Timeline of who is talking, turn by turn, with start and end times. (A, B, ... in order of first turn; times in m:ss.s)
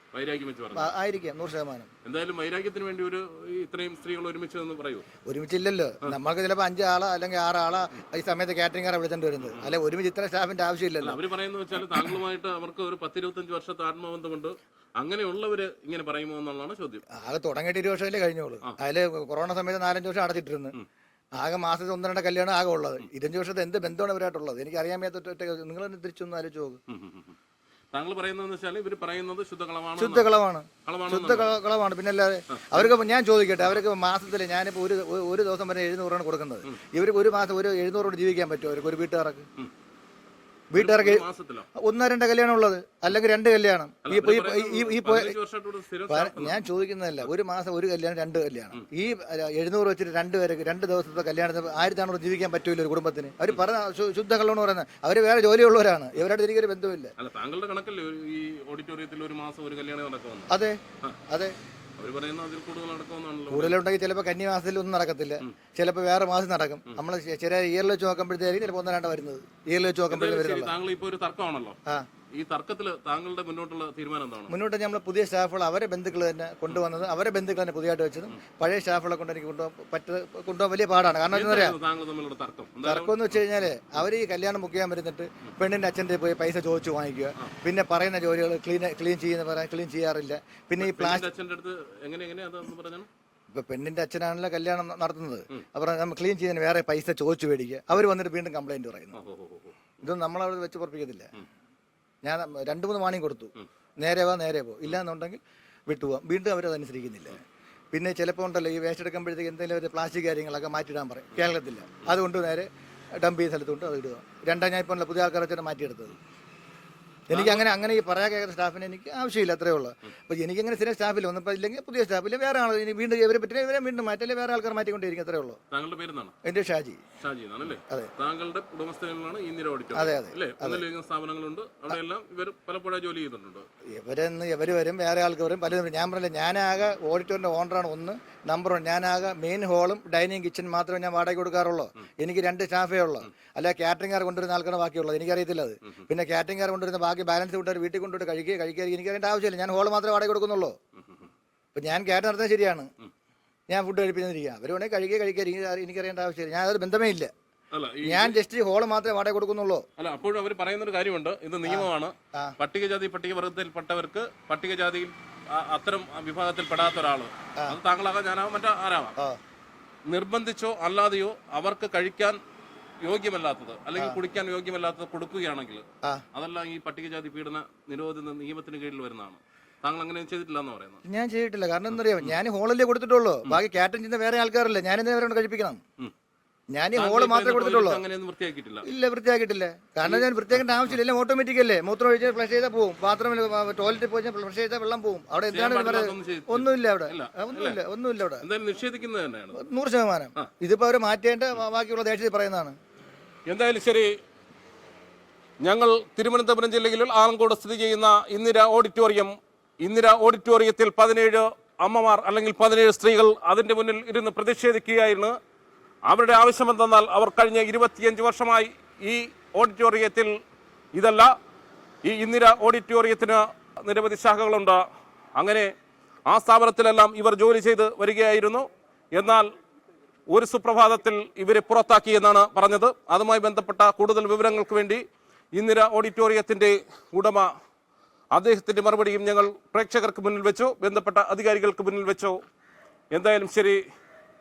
0:00.1-0:00.9 A
0:00.8-0:01.9 B
0:02.0-0:05.1 A
0:05.2-0:11.2 B
0:09.4-0:09.8 A
0:11.0-0:17.0 A
0:17.1-0:20.8 B
0:21.4-0:26.8 B
0:26.9-0:27.4 A
0:27.9-0:30.3 A
0:30.0-0:39.5 B
0:30.8-0:31.6 A
0:32.5-0:33.0 A
0:40.7-0:41.2 B
0:40.8-0:41.7 A
0:41.8-0:45.4 B
0:44.0-0:46.7 A
0:46.1-0:57.1 B
0:57.2-1:00.5 A
1:00.5-1:01.6 B
1:02.0-1:03.8 A
1:03.5-1:10.7 B
1:10.1-1:11.8 A
1:12.3-1:14.6 A
1:14.5-1:21.8 B
1:21.3-1:23.6 A
1:22.8-1:31.3 B
1:30.8-1:33.1 A
1:33.5-1:39.2 B
1:39.1-1:40.0 A
1:40.0-1:41.3 B
1:42.2-1:47.4 B
1:47.9-1:52.7 B
1:53.2-1:56.2 B
1:57.3-2:05.6 B
1:57.3-1:57.7 A
2:05.7-2:06.3 A
2:06.4-2:07.0 B
2:07.2-2:13.7 A
2:10.0-2:10.8 B
2:13.9-2:30.8 B
2:31.8-2:32.9 B
2:33.7-2:37.3 B
2:37.7-2:38.4 A
2:38.1-2:39.8 B
2:40.0-2:49.2 A
2:41.6-2:42.6 B
2:50.1-2:52.4 A
2:53.0-3:01.0 A
3:01.1-3:05.8 B
3:01.9-3:02.4 A
3:06.8-3:08.0 B
3:06.9-3:08.9 A
3:08.8-3:18.4 B
3:10.0-3:11.0 A
3:15.5-3:17.8 A
3:18.4-3:19.6 A
3:19.6-3:22.8 B
3:23.5-3:24.1 A
3:25.6-3:35.4 A
3:36.1-3:40.3 A
3:40.9-3:41.3 A
3:42.0-3:44.8 A
3:45.4-3:45.7 A
3:46.3-3:49.5 A
3:50.3-3:55.0 A
3:55.5-3:57.5 A
3:58.3-4:02.4 A
4:03.1-4:03.8 A